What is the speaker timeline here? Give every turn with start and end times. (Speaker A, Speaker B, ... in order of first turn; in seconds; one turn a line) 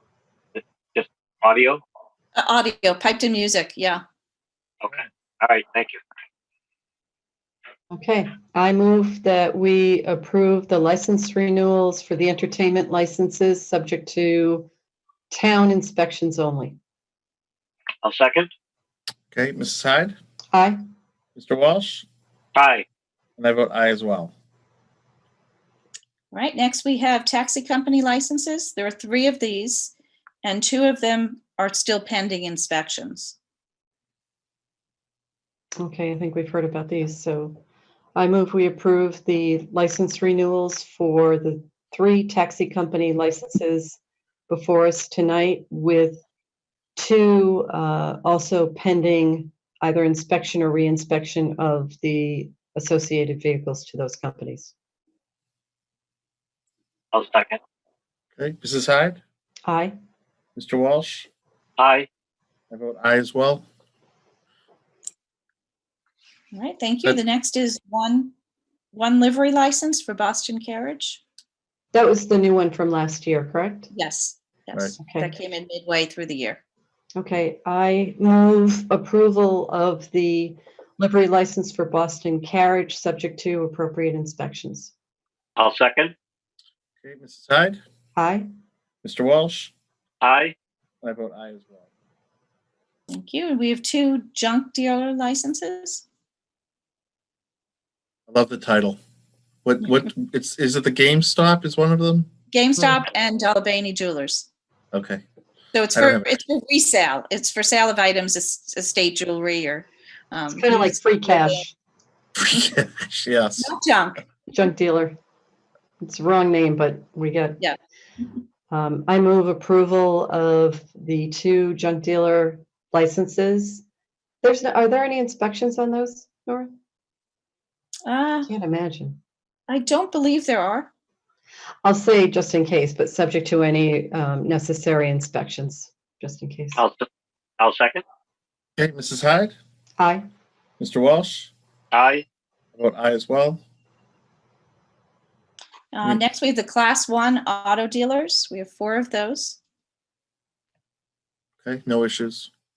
Speaker A: 0.6-1.8
Speaker B: 2.4-4.0
Speaker A: 4.8-6.0
Speaker C: 7.9-14.7
Speaker C: 15.3-16.8
Speaker A: 18.0-18.5
Speaker D: 19.3-20.2
Speaker C: 20.5-20.8
Speaker D: 21.4-22.1
Speaker A: 22.6-22.9
Speaker D: 23.4-24.3
Speaker B: 26.3-33.4
Speaker C: 35.8-37.6
Speaker C: 38.1-44.0
Speaker C: 44.5-46.2
Speaker C: 47.0-54.7
Speaker A: 57.1-57.6
Speaker D: 58.4-59.2
Speaker C: 59.7-60.0
Speaker D: 60.6-61.3
Speaker A: 61.8-62.1
Speaker D: 62.7-63.7
Speaker B: 66.5-68.3
Speaker B: 68.9-71.2
Speaker C: 71.9-73.9
Speaker B: 73.9-76.6
Speaker C: 75.0-75.3
Speaker C: 77.2-84.9
Speaker A: 85.6-86.1
Speaker D: 87.0-87.8
Speaker C: 88.2-88.5
Speaker D: 89.0-89.7
Speaker A: 90.2-90.5
Speaker D: 91.0-91.8
Speaker B: 93.1-96.0
Speaker D: 98.3-99.0
Speaker D: 99.7-102.3
Speaker B: 102.5-104.5
Speaker D: 104.9-105.2
Speaker B: 105.7-111.6
Speaker D: 106.0-106.2
Speaker C: 110.5-111.7
Speaker D: 112.4-113.7
Speaker B: 113.6-114.2
Speaker C: 114.5-115.2
Speaker C: 116.0-117.6
Speaker C: 118.7-123.8
Speaker C: 124.4-126.7
Speaker B: 128.1-128.5
Speaker C: 128.5-129.2
Speaker B: 129.7-130.9
Speaker C: 131.8-136.8
Speaker A: 136.8-137.1
Speaker A: 137.6-138.0
Speaker D: 138.8-139.6
Speaker C: 140.0-140.2
Speaker D: 140.8-141.5
Speaker A: 141.9-142.2
Speaker D: 142.8-143.6
Speaker B: 145.9-149.6
Speaker D: 151.6-152.5